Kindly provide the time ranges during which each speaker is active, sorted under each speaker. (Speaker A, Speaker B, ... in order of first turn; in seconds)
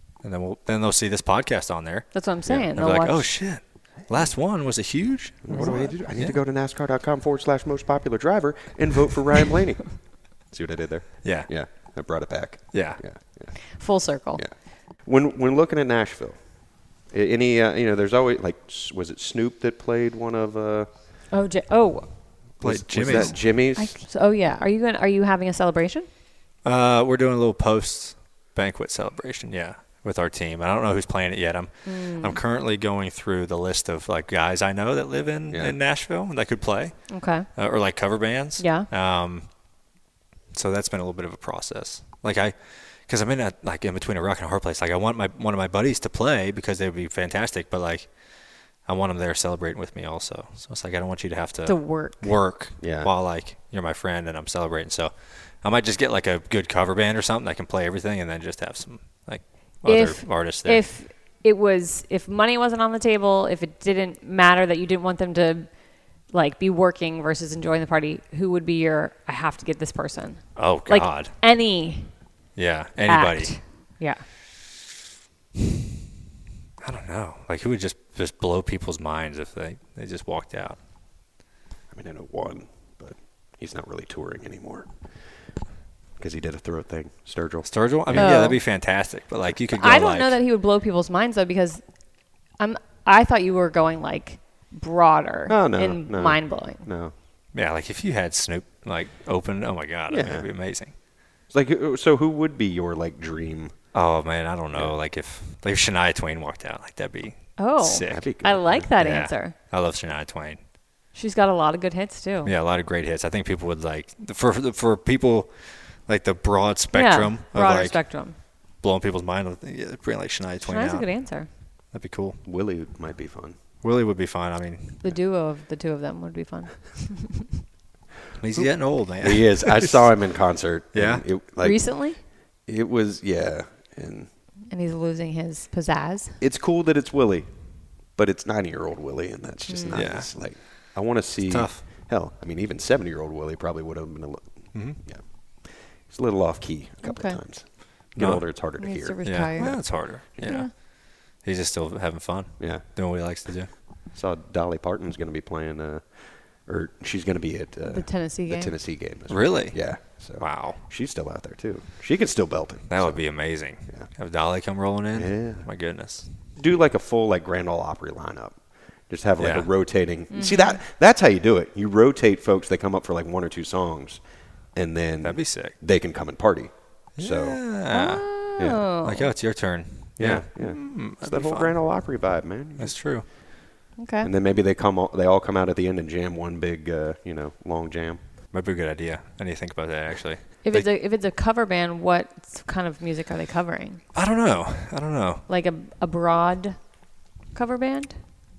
Speaker A: 0.2-6.4, 11.2-11.8, 12.7-13.0, 22.6-23.4, 26.6-39.5, 40.5-48.1, 48.9-60.9, 70.6-71.3, 72.6-73.6, 76.8-80.8, 87.7-90.4, 97.5-100.9, 103.9-108.3, 108.8-110.6, 112.5-121.4, 121.9-122.4, 123.8-125.0, 128.4-130.1, 130.9-131.2, 139.9-140.3, 141.5-141.8, 144.7-145.0, 148.2-148.5, 149.2-153.7, 159.3-160.8, 162.9-166.3, 169.4-169.7, 175.2-175.8, 177.2-178.4, 179.0-181.8, 182.8-183.3, 188.5-190.9, 194.1-195.4
Speaker B: 2.1-3.3, 5.5-5.9, 13.7-14.4, 21.3-22.1, 23.1-26.1, 31.9-32.4, 37.1-37.5, 38.6-38.9, 51.7-52.3, 59.9-65.7, 66.3-72.1, 73.1-74.2, 88.2-88.6, 89.7-91.8, 92.6-96.9, 107.6-109.5, 111.1-112.5, 116.9-118.4, 120.6-121.5, 125.0-127.5, 131.6-132.2, 134.7-136.4, 139.7-140.0, 147.0-147.4, 148.8-150.7, 157.9-158.8, 170.3-170.8, 177.9-179.3, 184.0-184.3, 190.6-194.0, 195.5-196.9, 197.5-198.2
Speaker C: 5.5-13.7, 14.3-20.9, 22.6-23.9, 35.5-35.8, 52.8-53.1, 81.9-84.9, 86.2-88.5, 95.5-97.1, 100.1-100.5, 101.5-103.8, 108.1-108.9, 122.5-123.6, 129.2-132.0, 132.7-134.3, 136.4-137.5, 138.1-149.2, 152.6-152.8, 154.1-163.3, 165.1-165.7, 166.6-174.2, 174.7-177.6, 178.6-178.8, 180.2-183.0, 184.2-188.2